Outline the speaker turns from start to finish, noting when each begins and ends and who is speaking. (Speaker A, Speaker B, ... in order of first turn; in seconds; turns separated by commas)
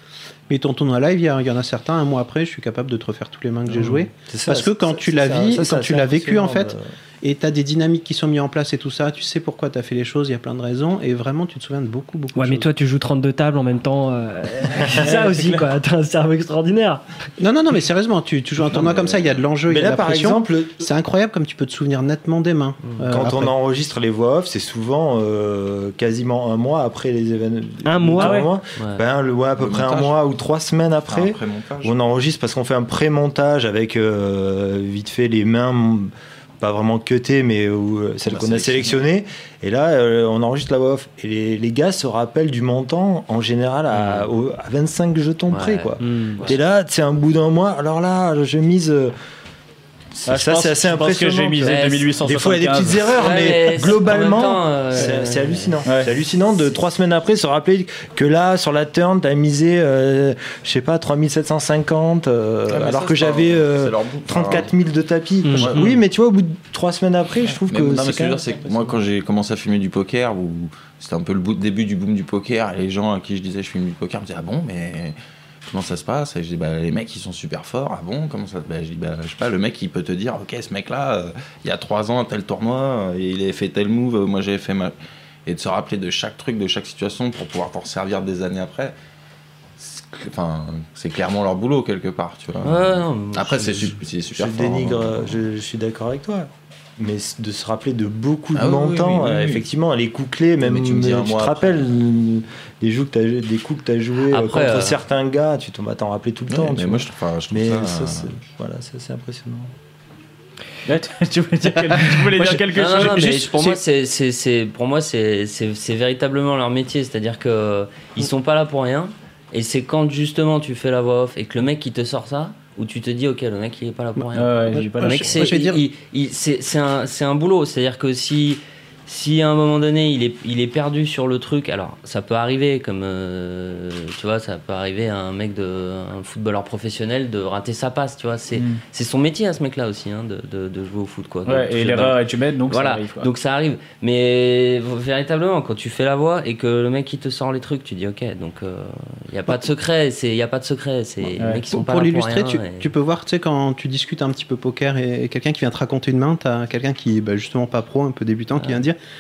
Speaker A: 0.5-12.7, Speaker B: 3.7-6.9, Speaker C: 12.3-17.0, Speaker B: 14.8-15.7, Speaker A: 17.4-23.5, Speaker D: 18.8-19.3, Speaker B: 19.7-20.9, Speaker B: 23.1-49.1, Speaker C: 27.9-28.5, Speaker E: 28.2-28.5, Speaker D: 29.6-30.2, Speaker D: 31.1-31.9, Speaker D: 38.3-38.9, Speaker F: 44.0-44.3, Speaker F: 45.5-46.6, Speaker C: 46.0-46.4, Speaker B: 50.1-68.5, Speaker E: 50.3-53.0, Speaker F: 51.6-52.1, Speaker F: 53.2-55.8, Speaker E: 55.9-56.1, Speaker D: 62.7-64.7, Speaker C: 65.5-65.8, Speaker D: 65.5-66.0, Speaker D: 67.6-84.9, Speaker D: 85.5-89.0, Speaker D: 89.8-95.3, Speaker F: 92.6-94.0, Speaker B: 94.4-109.7, Speaker D: 98.5-99.7, Speaker D: 100.6-101.8, Speaker F: 104.3-105.0, Speaker D: 106.5-108.3, Speaker E: 110.9-113.8, Speaker A: 112.1-112.6, Speaker F: 112.7-152.9, Speaker A: 124.2-125.8, Speaker E: 124.3-125.5, Speaker E: 138.6-138.8, Speaker E: 141.5-143.3, Speaker A: 151.7-159.0, Speaker F: 158.6-158.8